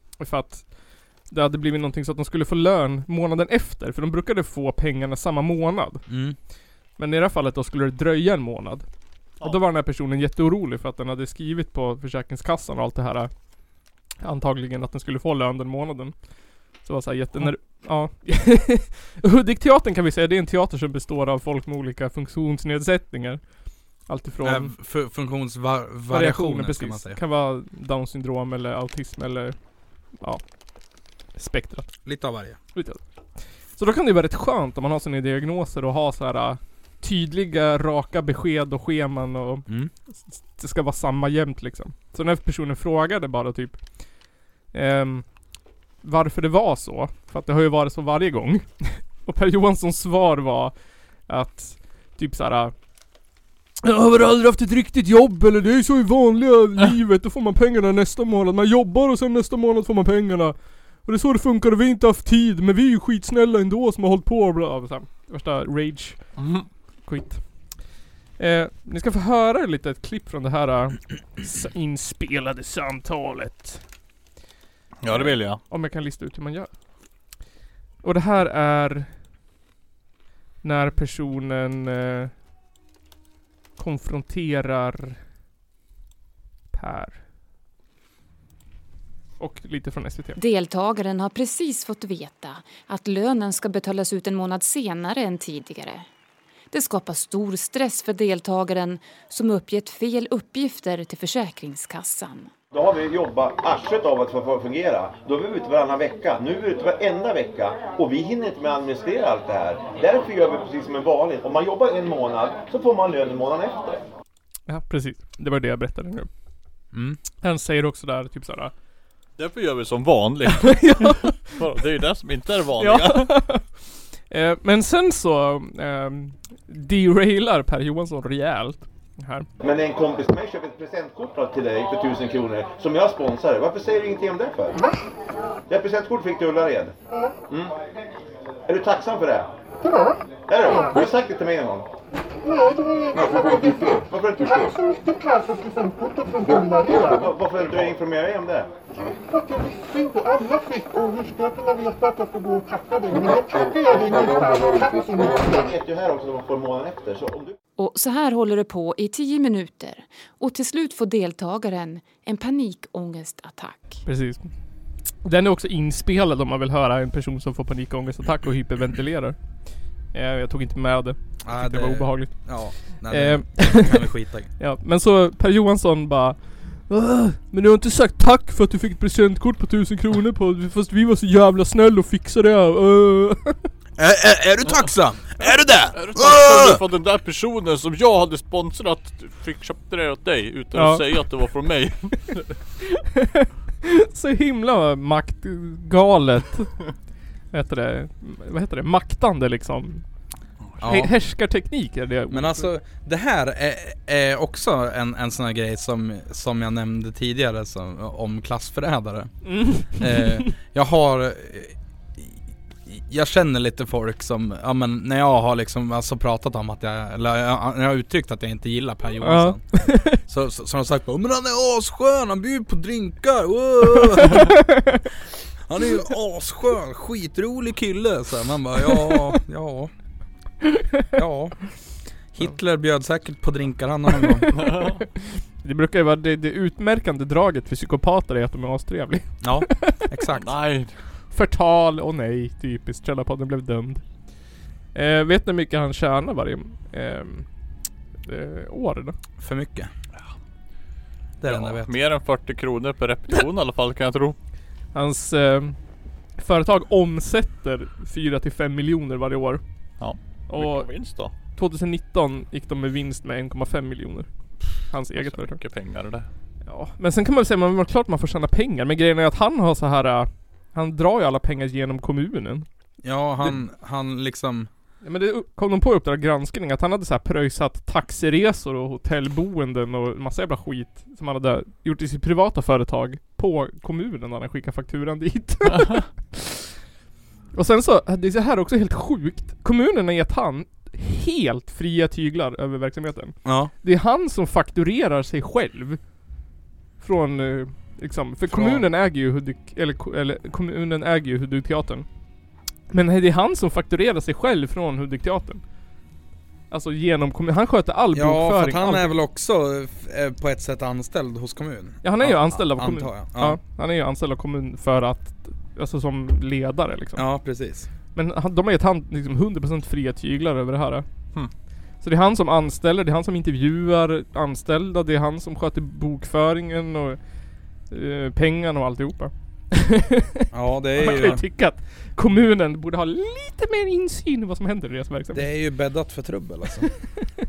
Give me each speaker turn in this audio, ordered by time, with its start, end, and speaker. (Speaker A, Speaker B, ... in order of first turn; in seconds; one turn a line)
Speaker A: 0.2-0.7
Speaker A: 1.3-6.0
Speaker B: 6.1-6.4
Speaker A: 7.0-8.9
Speaker A: 9.4-13.3
Speaker A: 14.2-16.1
Speaker A: 16.8-23.4
Speaker A: 24.1-24.7
Speaker B: 24.4-27.2
Speaker A: 26.1-29.6
Speaker A: 30.2-30.4
Speaker A: 31.3-31.9
Speaker B: 32.0-32.6
Speaker A: 32.7-33.0
Speaker A: 33.7-43.8
Speaker A: 44.7-45.3
Speaker A: 46.0-50.7
Speaker A: 51.3-52.7
Speaker A: 53.8-67.7
Speaker C: 66.4-66.7
Speaker A: 68.4-73.8
Speaker C: 75.0-75.6
Speaker A: 75.1-76.7
Speaker A: 78.0-79.1
Speaker A: 80.6-82.3
Speaker A: 83.8-85.2
Speaker A: 86.7-87.2
Speaker A: 89.4-90.4
Speaker D: 90.4-96.0
Speaker D: 96.7-102.5
Speaker E: 102.7-114.0
Speaker A: 114.7-116.3
Speaker B: 116.9-117.2
Speaker A: 117.4-118.7
Speaker C: 119.4-123.4
Speaker A: 120.6-121.5
Speaker A: 122.8-123.7
Speaker A: 124.3-129.5
Speaker E: 129.6-134.8
Speaker E: 135.7-136.9
Speaker E: 137.5-137.7
Speaker E: 138.7-139.5
Speaker E: 140.5-141.9
Speaker E: 144.0-144.7
Speaker E: 146.8-148.7
Speaker E: 153.9-157.6
Speaker D: 157.8-164.0
Speaker A: 164.1-164.5
Speaker A: 165.2-169.4
Speaker A: 170.1-183.7
Speaker B: 171.4-174.5
Speaker B: 184.0-186.8
Speaker C: 185.9-192.4
Speaker A: 190.7-191.1
Speaker A: 192.9-196.8
Speaker A: 197.5-200.0
Speaker B: 200.8-201.1
Speaker A: 200.8-202.7
Speaker B: 202.3-224.6
Speaker A: 209.4-210.5
Speaker A: 219.2-220.2
Speaker A: 224.2-225.1
Speaker B: 225.7-229.9
Speaker B: 231.1-231.6
Speaker B: 232.3-234.6
Speaker C: 234.6-235.0
Speaker A: 235.2-240.0
Speaker B: 239.4-240.5
Speaker C: 240.3-240.9
Speaker A: 241.3-244.1
Speaker A: 244.9-247.5
Speaker A: 248.2-249.2
Speaker B: 249.4-249.9
Speaker B: 251.4-251.9
Speaker C: 251.4-254.4
Speaker A: 254.9-255.8
Speaker A: 256.4-259.6
Speaker C: 260.0-261.3
Speaker A: 260.5-264.3
Speaker A: 264.8-265.6
Speaker C: 265.2-266.3
Speaker A: 266.6-272.6
Speaker B: 273.0-274.7
Speaker A: 275.0-286.5
Speaker A: 287.5-296.0
Speaker B: 293.4-293.7
Speaker A: 297.0-302.1
Speaker B: 298.5-298.9
Speaker A: 302.9-305.6
Speaker A: 306.7-309.1
Speaker B: 308.1-313.6
Speaker A: 312.0-317.2
Speaker B: 317.1-317.9
Speaker A: 318.1-321.1
Speaker A: 322.0-327.2
Speaker A: 327.9-335.4
Speaker B: 330.5-331.4
Speaker B: 335.3-336.9